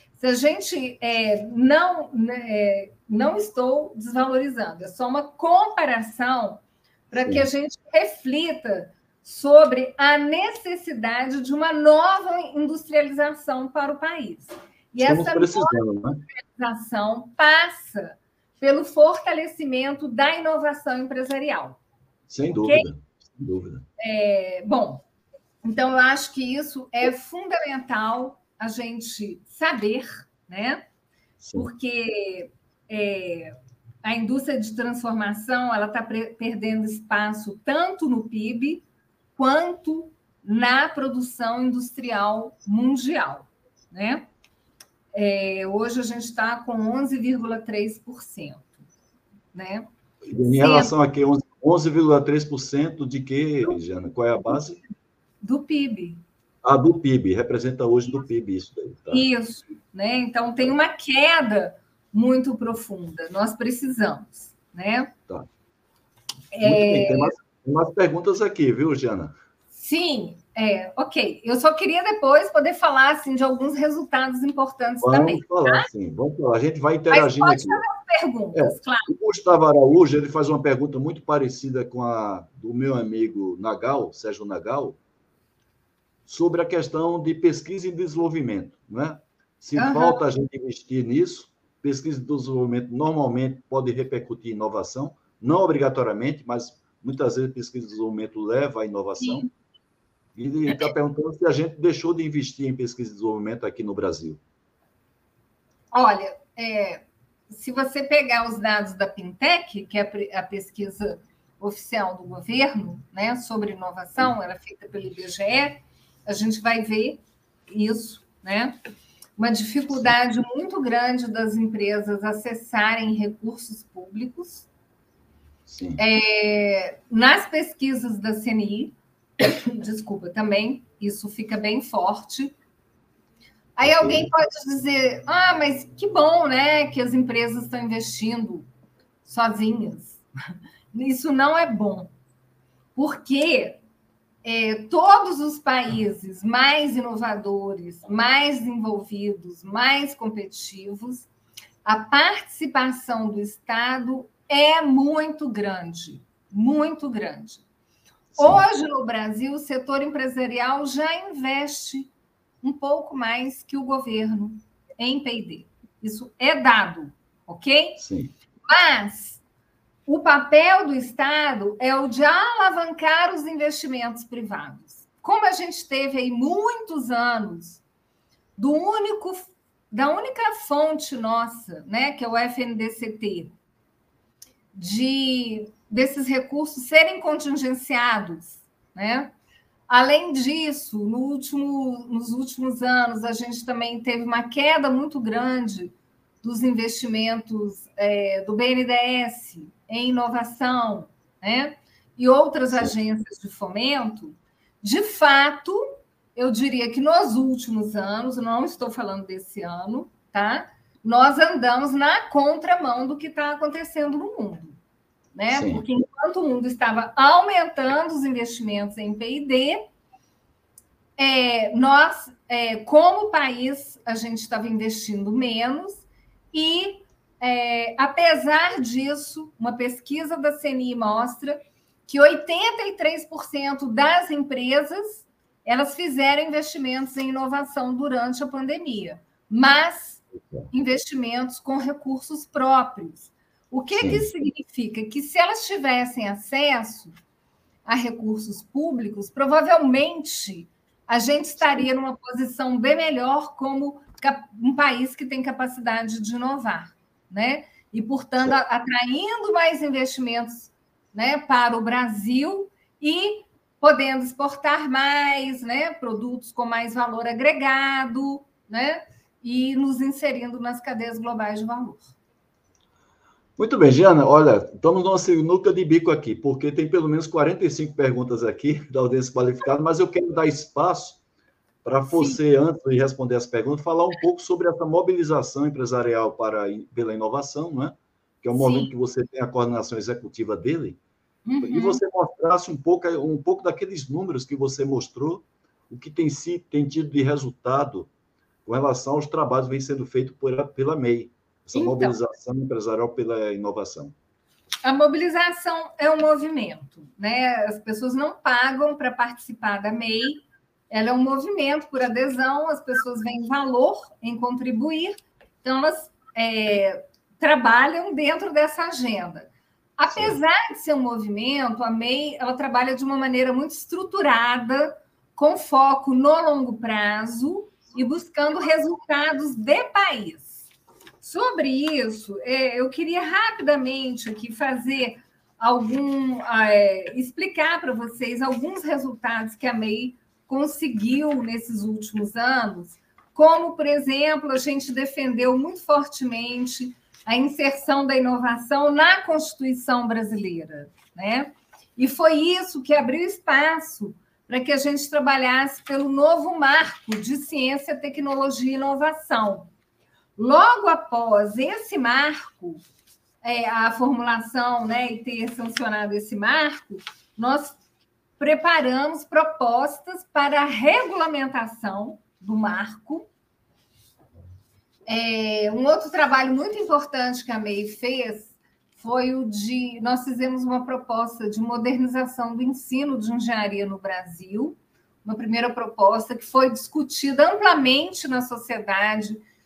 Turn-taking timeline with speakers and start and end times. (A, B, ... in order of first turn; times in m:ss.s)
0:00.2-0:15.8 A
0:07.2-0:07.4 B
0:15.0-0:16.2 B
0:16.3-0:21.8 A
0:22.3-0:23.8 B
0:22.6-0:22.9 A
0:24.0-0:25.0 A
0:25.6-0:30.8 A
0:31.4-0:31.7 B
0:31.5-0:38.8 A
0:39.4-0:44.2 A
0:45.1-0:48.7 A
0:49.5-0:49.9 A
0:50.2-0:54.8 B
0:50.4-0:50.9 A
0:55.4-0:56.2 A
0:56.6-0:59.2 B
0:59.1-1:05.1 A
1:06.5-1:07.3 A
1:06.6-1:09.4 B
1:09.7-1:15.9 A
1:15.0-1:17.8 B
1:17.1-1:19.1 A
1:18.5-1:25.0 B
1:26.2-1:39.4 B
1:29.8-1:30.2 A
1:39.2-1:39.5 A
1:40.3-1:44.4 B
1:45.9-1:58.7 A
1:59.4-2:04.7 A
2:05.7-2:06.0 B
2:06.0-2:12.5 A
2:13.8-2:18.7 A
2:13.8-2:14.3 B
2:19.2-2:20.2 A
2:20.9-2:22.1 A
2:23.0-2:23.8 A
2:24.4-2:31.3 A
2:31.8-2:37.6 A
2:38.4-2:38.6 B
2:38.4-2:42.1 A
2:42.6-2:48.0 A
2:48.0-2:48.3 B
2:48.7-2:49.4 A
2:50.1-2:57.8 A
2:58.6-3:03.5 A
3:04.7-3:09.3 A
3:09.9-3:25.8 A
3:26.3-3:34.8 A
3:35.3-3:39.8 A
3:35.5-3:35.8 B
3:41.2-4:07.1 A
4:00.4-4:00.7 B
4:04.0-4:04.3 B
4:07.8-4:32.1 A
4:33.6-4:41.2 B
4:41.8-4:51.0 B
4:42.1-4:42.4 A
4:48.5-4:48.9 A
4:51.4-4:52.0 A
4:51.6-4:58.1 B
4:58.6-5:04.1 B
5:01.7-5:02.2 A
5:04.8-5:30.6 A
5:20.1-5:20.4 B
5:31.2-5:59.7 A
6:00.4-6:02.8 A
6:03.4-6:07.8 A
6:08.4-6:13.3 A
6:15.1-6:29.4 A